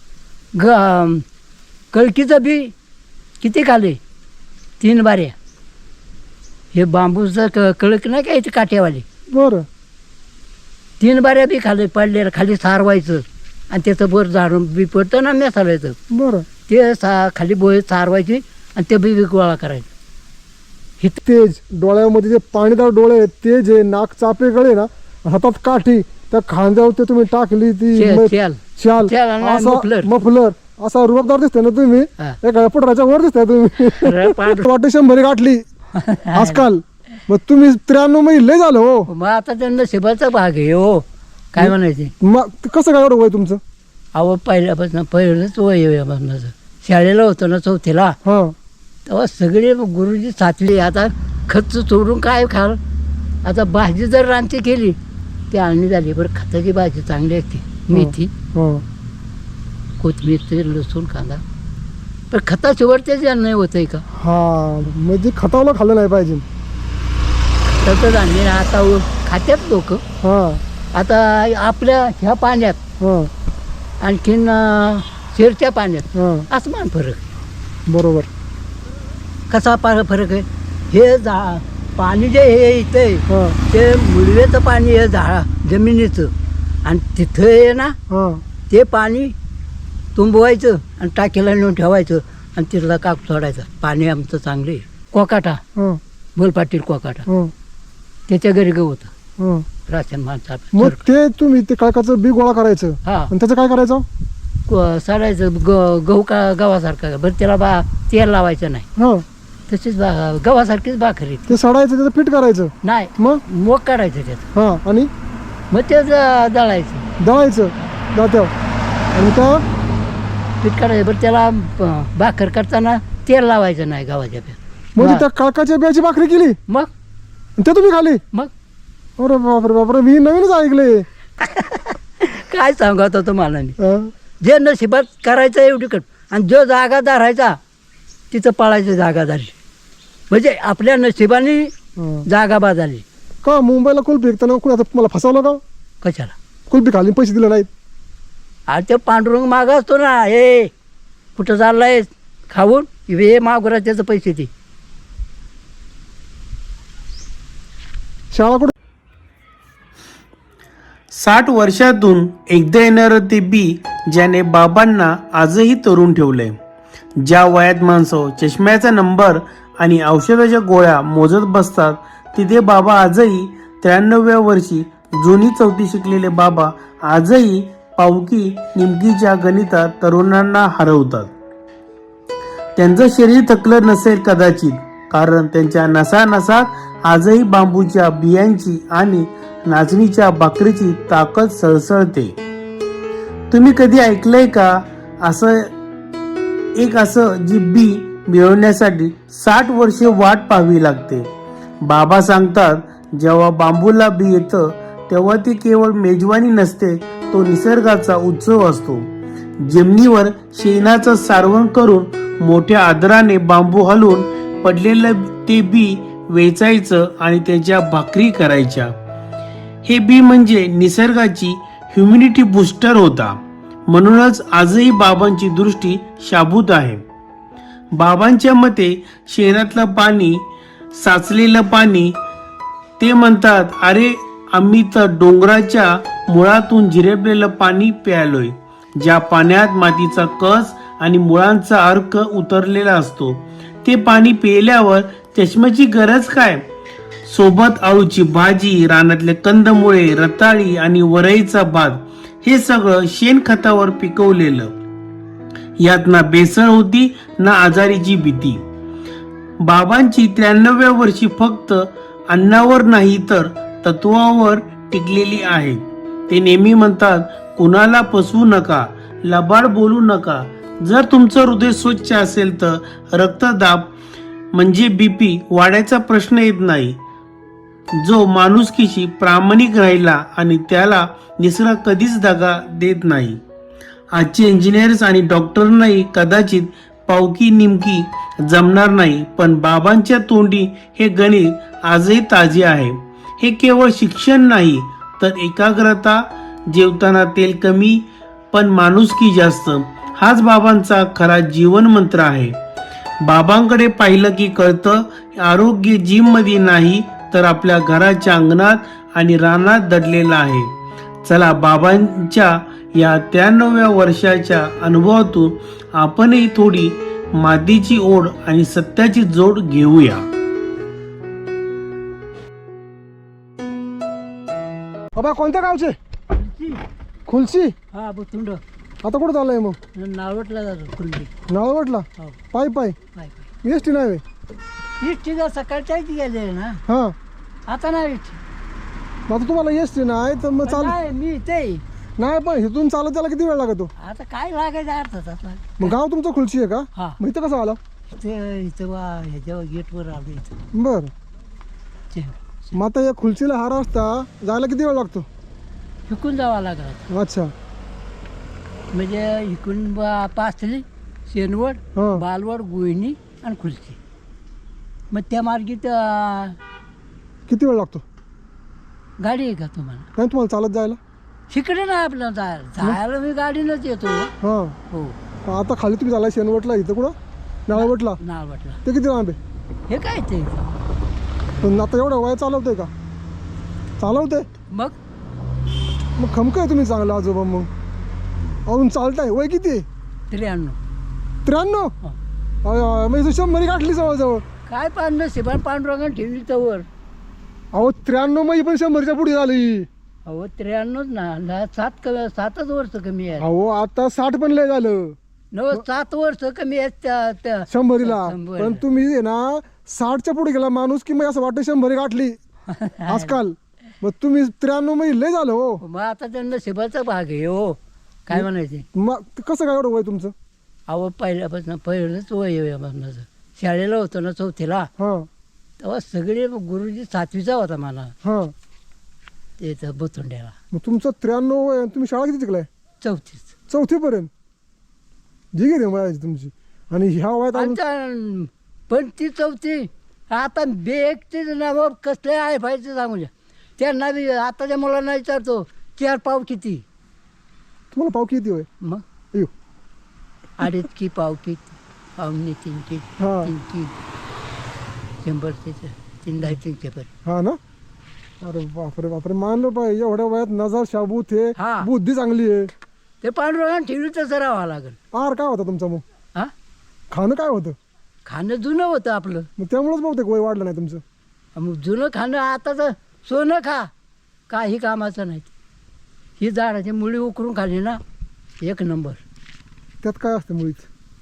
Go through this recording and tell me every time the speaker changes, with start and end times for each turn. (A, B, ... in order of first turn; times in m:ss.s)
0:00.6-0:01.2 A
0:01.9-0:02.7 A
0:03.4-0:04.0 A
0:04.8-0:05.3 A
0:06.7-0:09.0 A
0:09.3-0:09.6 B
0:11.0-0:16.0 A
0:16.1-0:16.4 B
0:16.7-0:19.9 A
0:21.2-0:35.6 B
0:27.9-0:30.1 A
0:34.0-0:34.7 A
0:35.9-0:36.6 A
0:36.3-0:39.1 B
0:39.1-0:42.1 A
0:41.6-0:43.6 B
0:44.1-0:48.2 A
0:48.2-0:48.5 B
0:49.0-0:52.8 A
0:53.4-0:55.0 A
0:55.5-0:58.3 A
0:57.9-0:58.8 B
1:00.0-1:01.4 A
1:02.3-1:04.0 A
1:04.1-1:06.4 B
1:07.7-1:10.0 A
1:10.2-1:10.6 B
1:10.9-1:12.8 A
1:13.0-1:13.3 B
1:14.0-1:17.2 A
1:16.1-1:16.4 B
1:17.9-1:18.3 B
1:19.5-1:26.3 A
1:23.3-1:23.6 B
1:26.8-1:28.0 A
1:28.1-1:28.4 B
1:28.7-1:29.3 A
1:30.1-1:35.6 A
1:35.7-1:36.0 B
1:36.4-1:37.2 A
1:37.3-1:37.5 B
1:38.3-1:39.1 A
1:39.4-1:39.6 B
1:39.9-1:41.0 A
1:40.7-1:44.0 B
1:43.0-1:43.3 A
1:44.7-1:48.9 A
1:49.0-1:49.2 B
1:49.7-1:51.6 A
1:51.5-1:53.4 B
1:52.8-1:54.5 A
1:54.5-1:55.1 B
1:55.7-1:57.0 A
1:57.2-1:58.5 B
1:59.1-1:59.6 B
2:00.6-2:05.2 A
2:05.0-2:06.6 B
2:07.6-2:08.2 B
2:09.2-2:11.0 B
2:11.4-2:13.8 A
2:13.8-2:14.1 B
2:14.4-2:17.6 A
2:18.3-2:19.5 A
2:20.3-2:21.7 A
2:22.0-2:22.2 B
2:22.3-2:23.0 A
2:23.4-2:25.6 B
2:26.0-2:26.3 A
2:26.7-2:27.7 B
2:28.7-2:30.7 A
2:31.4-2:34.5 A
2:38.3-2:38.7 B
2:41.1-2:46.5 C
2:47.2-3:01.3 C
3:02.8-3:12.4 C
3:13.5-3:15.6 C
3:16.8-3:21.3 C
3:21.8-3:29.1 C
3:29.6-3:38.9 C
3:39.8-3:43.4 C
3:43.9-3:47.0 C
3:47.9-3:52.1 C
3:53.0-4:06.6 C
4:07.3-4:14.7 C
4:15.8-4:18.6 C
4:19.6-4:33.9 C
4:34.5-4:37.0 C
4:38.0-4:43.4 C
4:44.1-5:02.6 C
5:03.2-5:10.7 C
5:11.2-5:20.2 C
5:25.1-5:26.0 B
5:26.3-5:26.8 A
5:27.2-5:27.7 B
5:27.9-5:28.6 A
5:29.0-5:29.8 B
5:29.9-5:31.3 A
5:31.5-5:33.0 B
5:33.1-5:33.5 A
5:33.6-5:34.2 B
5:35.0-5:36.8 A
5:36.9-5:37.2 B
5:37.7-5:38.4 A
5:39.3-5:41.0 B
5:40.7-5:41.8 A
5:42.2-5:43.9 B
5:44.0-5:45.9 A
5:45.8-5:47.8 B
5:48.1-5:50.5 A
5:50.7-5:51.1 B
5:52.1-5:52.8 A
5:52.7-5:55.3 B
5:56.1-5:57.0 A
5:57.1-5:57.5 B
5:58.9-6:04.0 A
6:02.0-6:02.2 B
6:05.1-6:06.6 A
6:07.5-6:08.0 B
6:09.2-6:10.1 A
6:10.2-6:11.0 B
6:11.5-6:14.3 A
6:14.4-6:14.8 B
6:15.4-6:17.1 B
6:17.6-6:18.2 B
6:17.7-6:18.8 A
6:18.8-6:19.4 B
6:19.9-6:20.7 A
6:21.6-6:22.9 B
6:24.0-6:24.5 B
6:24.7-6:25.0 A
6:26.2-6:27.7 B
6:28.6-6:29.8 B
6:30.3-6:30.8 A
6:31.4-6:31.9 B
6:32.6-6:34.4 B
6:34.7-6:36.8 A
6:37.7-6:39.9 B
6:40.2-6:43.4 A
6:43.4-6:45.2 B
6:45.5-6:48.8 A
6:47.7-6:52.4 B
6:52.7-6:53.4 A
6:53.1-6:55.8 B
6:55.8-6:58.8 A
6:58.3-7:00.3 B
7:00.9-7:04.9 A
7:05.0-7:05.3 B
7:05.8-7:08.1 A
7:08.2-7:08.5 B
7:09.6-7:10.6 A
7:10.7-7:12.7 B
7:13.0-7:13.5 A
7:13.7-7:14.3 B
7:15.5-7:17.8 B
7:17.5-7:26.8 A
7:27.9-7:28.7 B
7:30.6-7:34.0 A
7:33.2-7:33.5 B
7:35.2-7:37.1 A
7:37.2-7:37.6 B
7:38.4-7:42.7 B
7:41.6-7:41.9 A
7:43.2-7:45.0 A
7:45.1-7:46.0 B
7:47.1-7:47.8 B
7:48.2-7:49.5 A
7:49.6-7:51.0 B
7:51.5-7:53.9 A
7:54.5-7:55.5 A
7:56.4-7:58.0 A
7:58.6-7:59.2 A
8:00.0-8:00.9 B